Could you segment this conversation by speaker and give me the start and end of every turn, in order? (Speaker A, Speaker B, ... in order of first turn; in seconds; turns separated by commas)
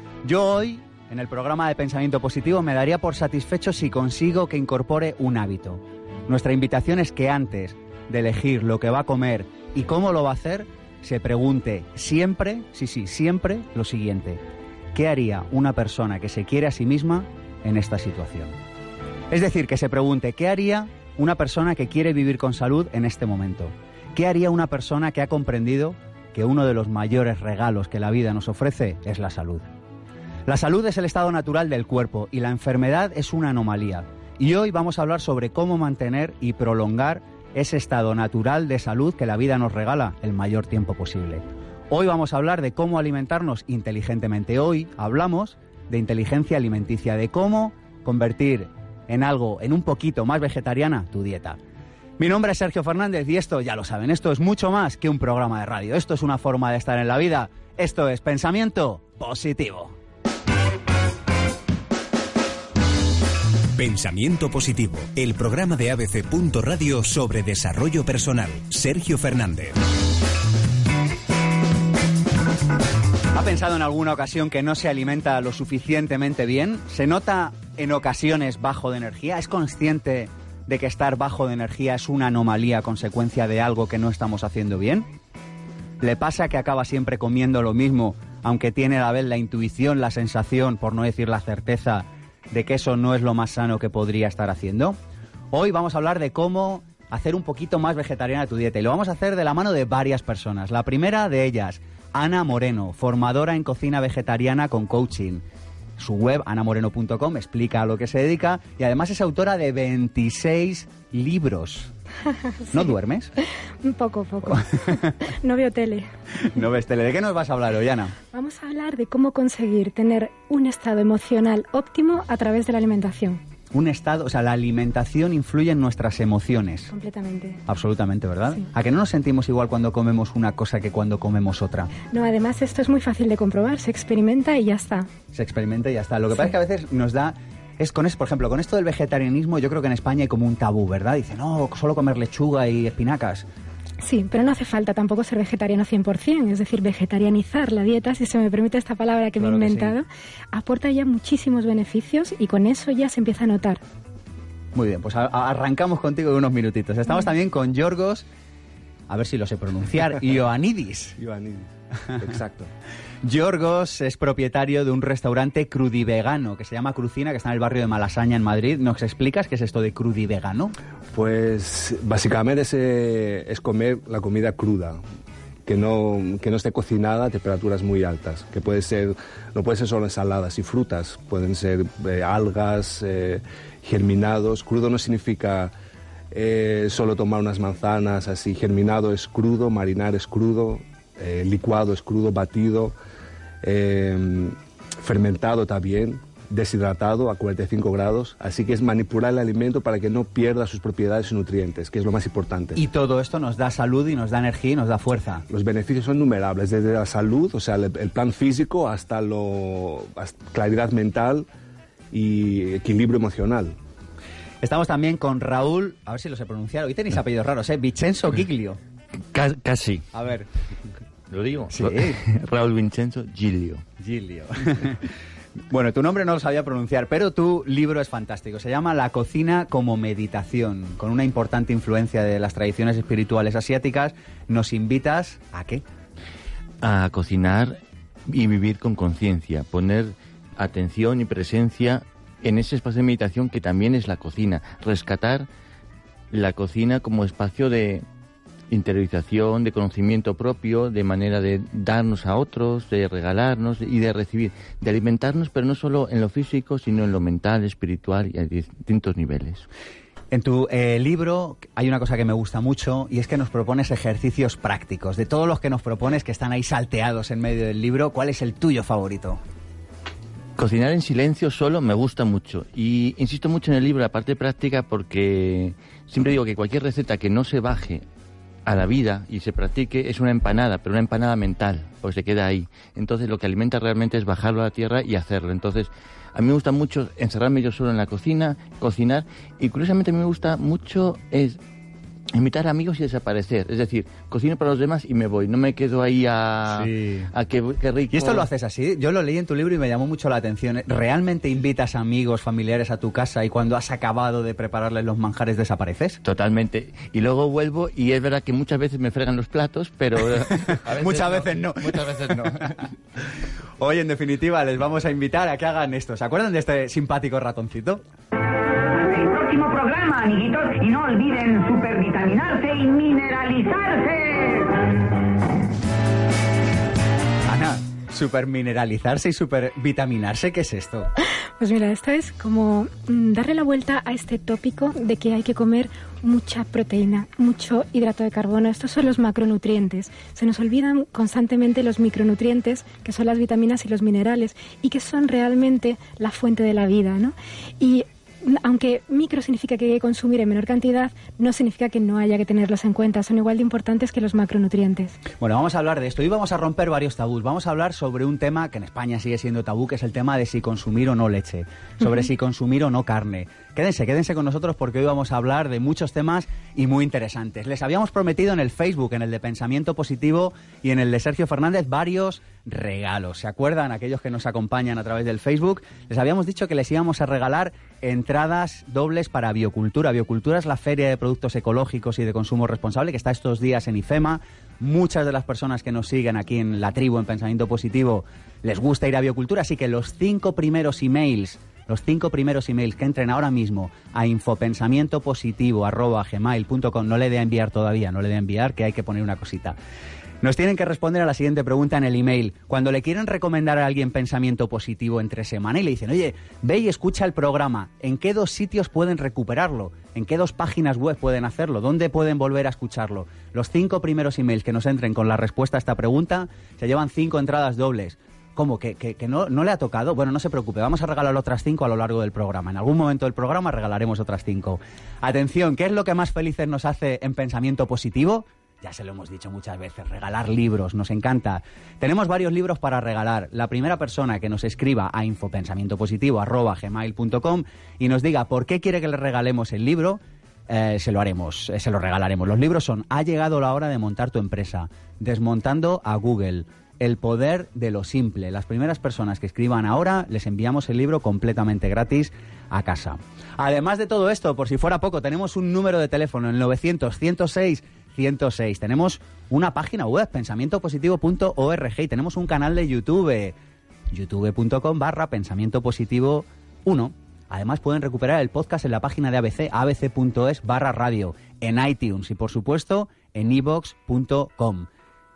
Speaker A: 0.2-14.4, Speaker A: 14.9-18.6, Speaker A: 19.3-29.7, Speaker A: 30.5-51.6, Speaker A: 52.2-60.0, Speaker B: 63.8-69.8, Speaker A: 73.3-85.1, Speaker A: 86.0-95.0, Speaker A: 95.5-105.4, Speaker A: 106.0-111.9, Speaker A: 112.7-113.3, Speaker C: 113.8-116.1, Speaker A: 114.5-115.2, Speaker A: 116.4-118.2, Speaker C: 118.3-123.4, Speaker A: 123.7-126.9, Speaker C: 126.9-127.6, Speaker A: 127.7-131.9, Speaker C: 132.1-135.1, Speaker A: 135.3-143.5, Speaker C: 144.0-153.8, Speaker A: 149.4-150.0, Speaker A: 154.7-158.2, Speaker A: 159.1-161.2, Speaker D: 161.2-162.7, Speaker A: 163.2-170.8, Speaker D: 171.1-175.0, Speaker D: 175.7-185.7, Speaker D: 186.3-193.0, Speaker D: 193.6-202.8, Speaker A: 202.8-205.4, Speaker D: 205.5-211.5, Speaker D: 212.1-213.8, Speaker A: 214.6-218.8, Speaker E: 219.3-220.1, Speaker A: 220.1-220.5, Speaker E: 221.3-223.8, Speaker A: 221.7-222.2, Speaker A: 224.0-225.1, Speaker A: 225.7-235.8, Speaker E: 236.8-245.5, Speaker E: 246.3-248.1, Speaker E: 248.7-259.7, Speaker A: 260.3-269.4, Speaker E: 270.6-278.0, Speaker E: 278.7-291.6, Speaker E: 292.3-298.5, Speaker A: 296.7-297.3, Speaker A: 298.1-306.2, Speaker E: 306.2-312.9, Speaker A: 310.7-312.5, Speaker A: 313.8-318.0, Speaker F: 318.9-324.7, Speaker A: 327.5-331.1, Speaker C: 331.6-355.2, Speaker A: 355.4-399.8, Speaker A: 400.4-463.6, Speaker A: 464.1-474.9